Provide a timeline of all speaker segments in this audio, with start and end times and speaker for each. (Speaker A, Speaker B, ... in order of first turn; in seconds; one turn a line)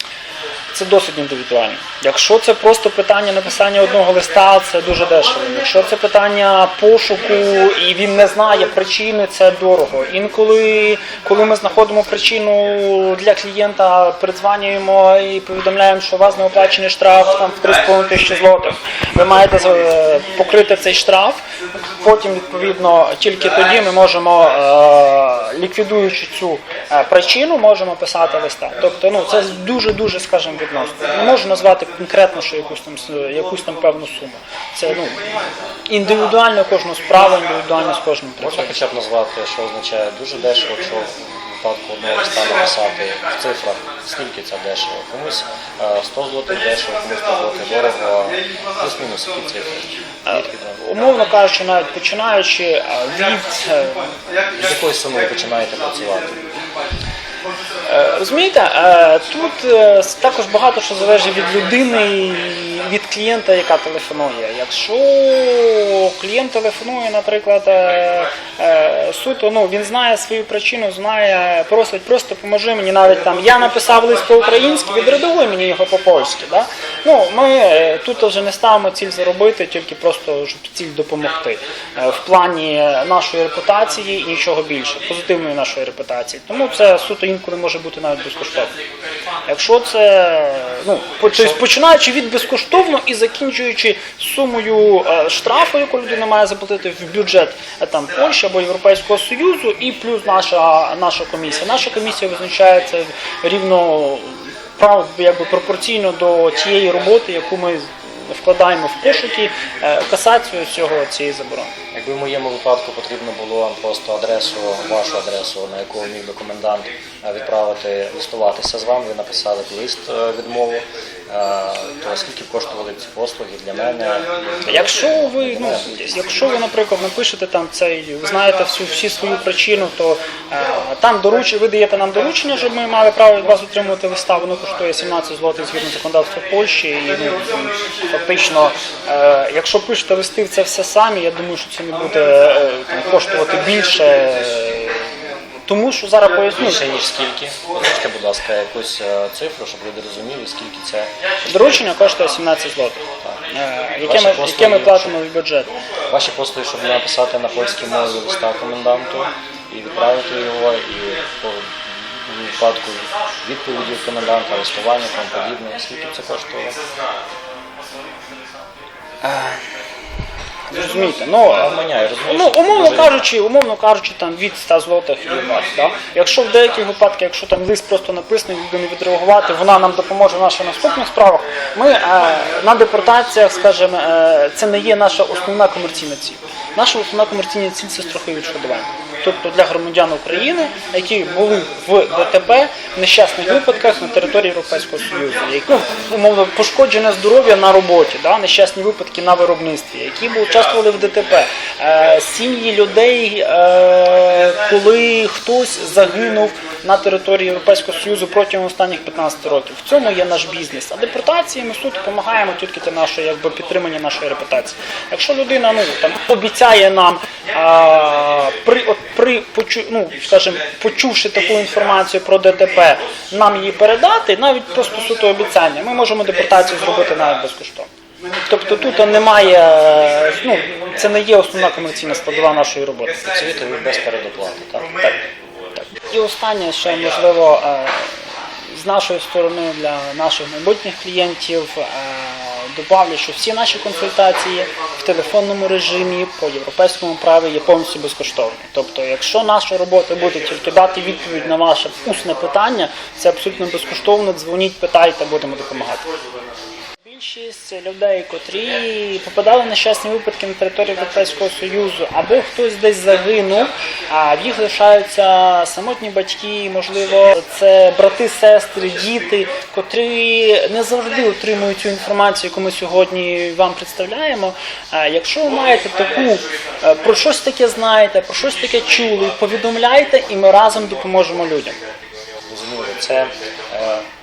Speaker A: 0.7-21.4
Speaker A: 22.0-35.2
Speaker A: 35.9-38.8
Speaker B: 38.4-50.8
Speaker A: 50.2-54.3
Speaker B: 54.5-56.6
Speaker A: 57.9-88.7
Speaker A: 89.5-111.7
Speaker B: 111.9-126.3
Speaker A: 124.7-145.0
Speaker A: 145.7-146.8
Speaker B: 146.6-151.1
Speaker A: 151.4-155.7
Speaker B: 154.0-155.1
Speaker B: 156.1-166.8
Speaker A: 169.2-169.6
Speaker A: 170.7-171.7
Speaker B: 171.5-173.3
Speaker A: 172.3-227.9
Speaker A: 228.5-233.2
Speaker B: 233.2-235.2
Speaker A: 236.0-238.2
Speaker A: 238.7-256.0
Speaker A: 257.0-281.8
Speaker B: 282.5-284.0